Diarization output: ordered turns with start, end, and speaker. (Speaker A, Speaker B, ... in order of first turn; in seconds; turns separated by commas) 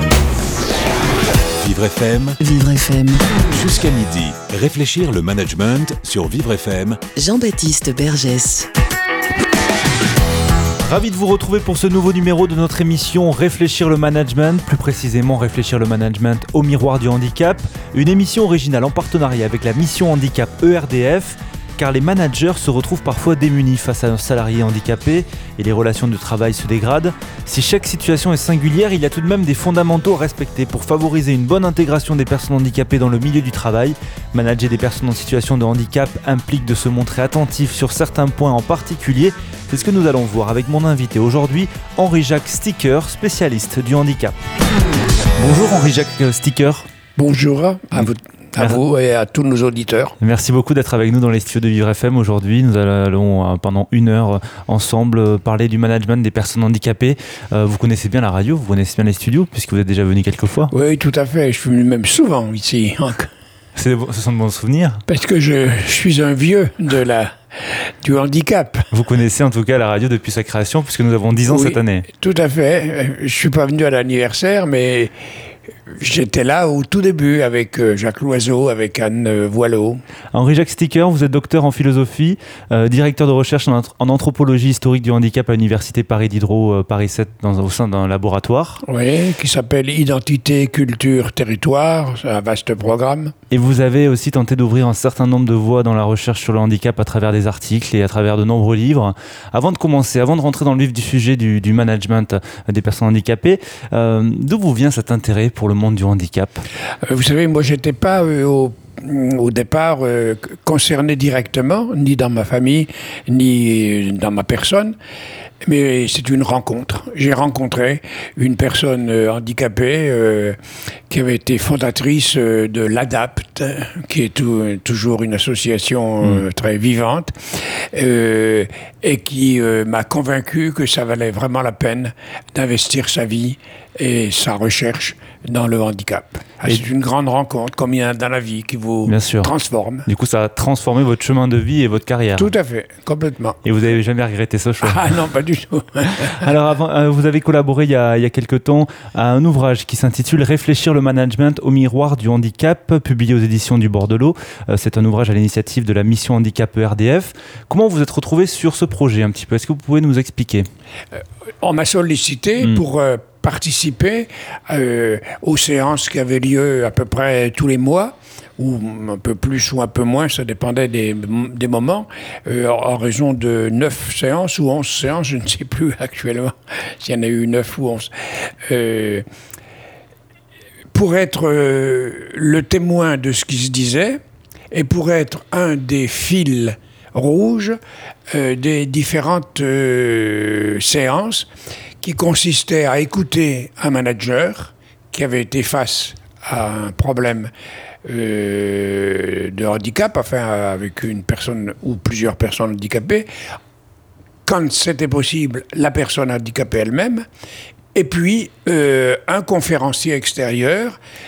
Speaker A: 1.6-2.4, Speaker B: 2.4-3.4, Speaker A: 3.5-7.0, Speaker B: 7.2-8.7, Speaker C: 10.8-44.4, Speaker C: 45.4-46.9, Speaker D: 47.2-50.2, Speaker C: 50.2-60.7, Speaker D: 60.7-63.3, Speaker C: 63.8-65.0, Speaker D: 65.1-68.9, Speaker C: 68.9-72.1, Speaker D: 71.5-75.1, Speaker D: 75.9-80.0, Speaker C: 80.3-88.8, Speaker D: 88.8-93.3, Speaker C: 93.5-106.7, Speaker D: 107.0-115.0, Speaker D: 115.6-120.6, Speaker D: 121.1-140.1, Speaker C: 139.1-139.5, Speaker C: 140.1-142.5, Speaker D: 142.4-143.6, Speaker C: 143.6-145.0, Speaker D: 144.8-146.5, Speaker C: 146.2-160.7, Speaker D: 161.1-179.2, Speaker D: 180.9-187.8, Speaker D: 188.3-191.5, Speaker D: 192.0-197.5, Speaker D: 198.0-203.3, Speaker D: 204.4-207.3, Speaker D: 207.9-211.0